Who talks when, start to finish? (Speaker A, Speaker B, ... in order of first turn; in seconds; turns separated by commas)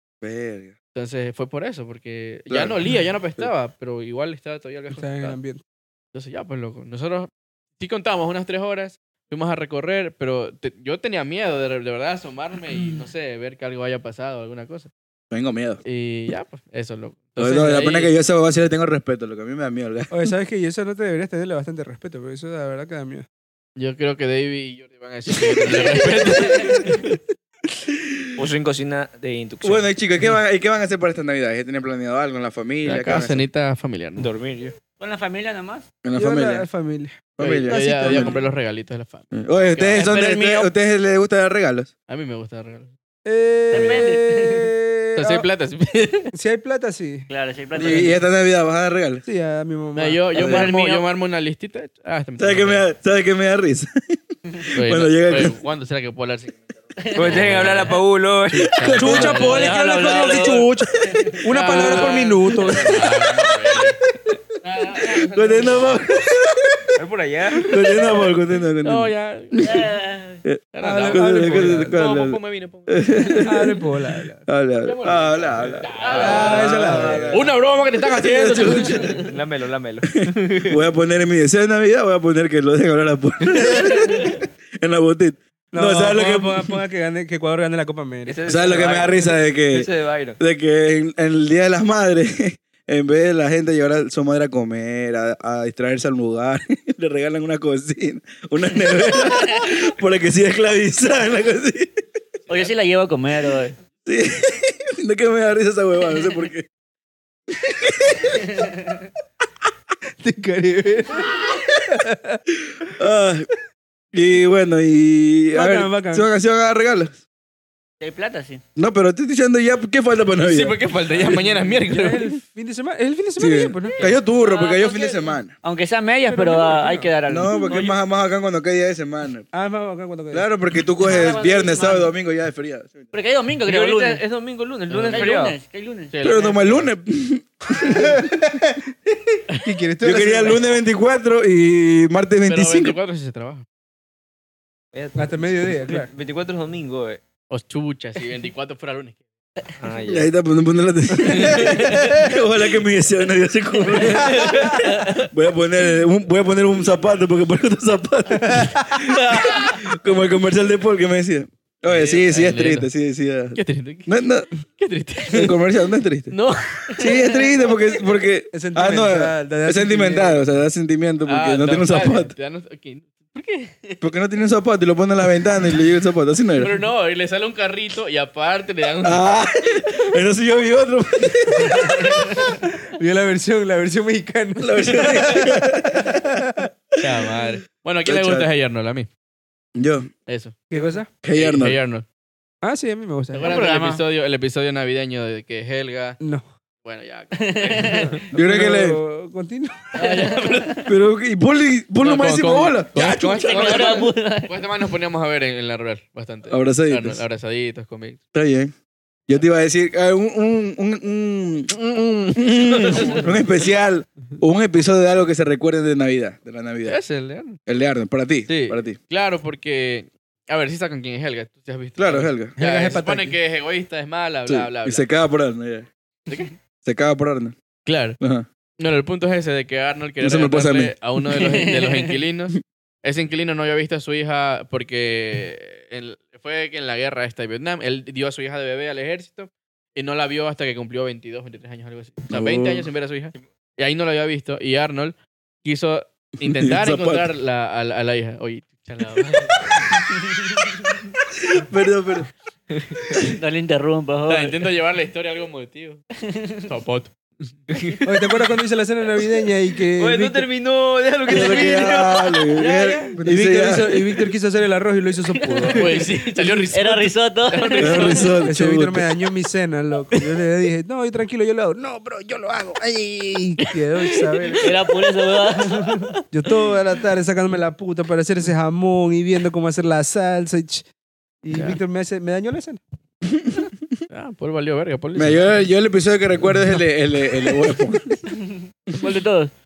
Speaker A: 0.2-0.7, Speaker B: 0.9-5.4, Speaker A: 2.5-2.8, Speaker C: 4.9-5.6, Speaker B: 6.1-14.9, Speaker A: 15.3-15.8, Speaker B: 15.8-18.1, Speaker A: 17.4-20.2, Speaker C: 20.1-23.2, Speaker B: 23.8-27.2, Speaker D: 26.4-26.7, Speaker E: 28.4-29.9, Speaker A: 29.6-33.4, Speaker B: 32.8-34.3, Speaker E: 34.2-34.7, Speaker D: 35.0-35.9, Speaker A: 36.0-36.6, Speaker C: 36.1-38.5, Speaker A: 37.4-38.4, Speaker B: 37.4-40.2, Speaker A: 39.3-41.9, Speaker D: 39.9-40.7, Speaker B: 42.1-42.9, Speaker C: 43.2-45.4, Speaker B: 43.7-44.1, Speaker D: 43.7-44.7, Speaker B: 45.1-46.3, Speaker C: 46.3-47.3, Speaker D: 47.3-48.2, Speaker A: 47.8-49.2, Speaker C: 49.2-50.5, Speaker B: 49.9-52.9, Speaker A: 50.3-50.7, Speaker D: 50.4-51.0, Speaker A: 52.4-54.2, Speaker A: 54.7-55.5, Speaker B: 54.7-56.6, Speaker D: 57.0-57.7, Speaker E: 57.1-58.8, Speaker B: 57.2-58.0, Speaker B: 58.5-60.2, Speaker C: 58.8-63.5, Speaker A: 58.9-59.3, Speaker D: 59.1-62.3, Speaker B: 61.5-64.0, Speaker D: 64.6-66.0, Speaker A: 65.0-66.9, Speaker E: 67.0-67.8, Speaker A: 67.6-69.9, Speaker B: 68.8-69.6, Speaker D: 69.6-70.4, Speaker A: 70.4-73.8, Speaker B: 70.7-73.7, Speaker C: 70.8-72.0, Speaker C: 73.5-74.4, Speaker A: 74.5-79.1, Speaker D: 74.8-75.4, Speaker E: 75.8-77.3, Speaker D: 75.9-76.6, Speaker B: 75.9-79.3, Speaker C: 76.1-77.3, Speaker D: 78.6-79.2, Speaker E: 79.2-80.8, Speaker A: 80.2-86.7, Speaker C: 85.7-88.4, Speaker E: 88.2-90.4, Speaker A: 88.5-102.0, Speaker D: 99.1-99.7, Speaker D: 102.5-103.7, Speaker A: 104.0-106.7, Speaker A: 107.6-108.2, Speaker D: 108.4-109.0, Speaker C: 110.2-112.4, Speaker A: 112.7-113.5, Speaker A: 114.1-117.2, Speaker C: 115.5-116.3, Speaker D: 118.0-118.6, Speaker A: 118.8-120.8, Speaker B: 120.4-122.4, Speaker C: 121.1-124.0, Speaker A: 123.4-125.5, Speaker D: 124.0-128.0, Speaker C: 126.3-127.1, Speaker A: 127.3-129.5, Speaker C: 129.5-130.5, Speaker A: 130.3-133.1, Speaker D: 131.0-132.1, Speaker D: 133.1-134.2, Speaker E: 133.7-135.6, Speaker B: 134.9-135.5, Speaker D: 135.1-136.1, Speaker B: 136.1-136.9, Speaker A: 136.2-138.2, Speaker C: 137.8-140.6, Speaker B: 139.5-139.8, Speaker A: 140.0-143.0, Speaker B: 142.5-143.7, Speaker E: 144.9-147.2, Speaker C: 145.2-146.1, Speaker B: 147.5-149.2, Speaker E: 149.8-150.3, Speaker A: 150.1-164.5, Speaker B: 151.2-152.2, Speaker C: 158.3-158.8, Speaker B: 159.2-159.6, Speaker B: 161.9-162.9, Speaker B: 163.5-165.5, Speaker A: 165.3-166.3, Speaker B: 166.3-167.5, Speaker A: 167.0-172.3, Speaker C: 168.5-170.5, Speaker B: 171.2-174.0, Speaker A: 174.0-176.7, Speaker B: 176.6-179.2, Speaker A: 179.0-182.2, Speaker C: 182.9-186.6, Speaker A: 184.6-187.3, Speaker B: 187.0-189.1, Speaker A: 188.0-188.5, Speaker A: 189.8-190.1, Speaker B: 190.2-190.6, Speaker C: 190.7-191.1, Speaker A: 191.2-191.8, Speaker B: 191.3-192.1, Speaker C: 192.6-193.5, Speaker B: 193.3-196.2, Speaker D: 193.4-194.0, Speaker B: 196.8-198.1, Speaker D: 197.3-198.2, Speaker E: 197.6-198.0, Speaker C: 198.0-199.9, Speaker A: 198.3-199.0, Speaker B: 199.9-200.8, Speaker D: 200.0-200.9, Speaker A: 200.9-204.1, Speaker B: 202.0-208.2, Speaker D: 203.2-204.6, Speaker A: 206.5-207.2, Speaker A: 208.3-208.7, Speaker A: 209.3-217.0, Speaker B: 212.8-213.4, Speaker B: 216.8-217.6, Speaker A: 217.7-219.0, Speaker B: 218.5-225.1, Speaker A: 222.0-222.6, Speaker C: 222.6-223.4, Speaker A: 224.4-225.9, Speaker B: 226.3-226.5, Speaker A: 226.8-227.5, Speaker B: 227.8-228.2, Speaker A: 228.2-228.4, Speaker B: 228.8-249.7, Speaker A: 230.2-231.6, Speaker D: 231.4-232.1, Speaker A: 242.3-242.9, Speaker A: 246.4-247.3, Speaker A: 251.4-252.3, Speaker E: 252.7-253.0, Speaker D: 253.3-254.6, Speaker B: 254.3-256.0, Speaker D: 256.2-256.7, Speaker B: 256.7-257.6, Speaker E: 257.7-258.4, Speaker C: 258.0-260.4, Speaker E: 260.0-262.5, Speaker A: 261.3-264.0, Speaker B: 262.6-263.2, Speaker C: 263.2-265.9, Speaker B: 265.7-268.5, Speaker D: 266.7-268.3, Speaker A: 267.8-269.0, Speaker C: 268.4-274.6, Speaker B: 274.2-274.7, Speaker D: 274.6-276.1, Speaker C: 276.3-280.8, Speaker C: 281.4-282.8, Speaker B: 281.5-281.8, Speaker A: 283.3-283.6, Speaker B: 284.1-285.5, Speaker A: 285.1-288.0, Speaker D: 289.0-289.5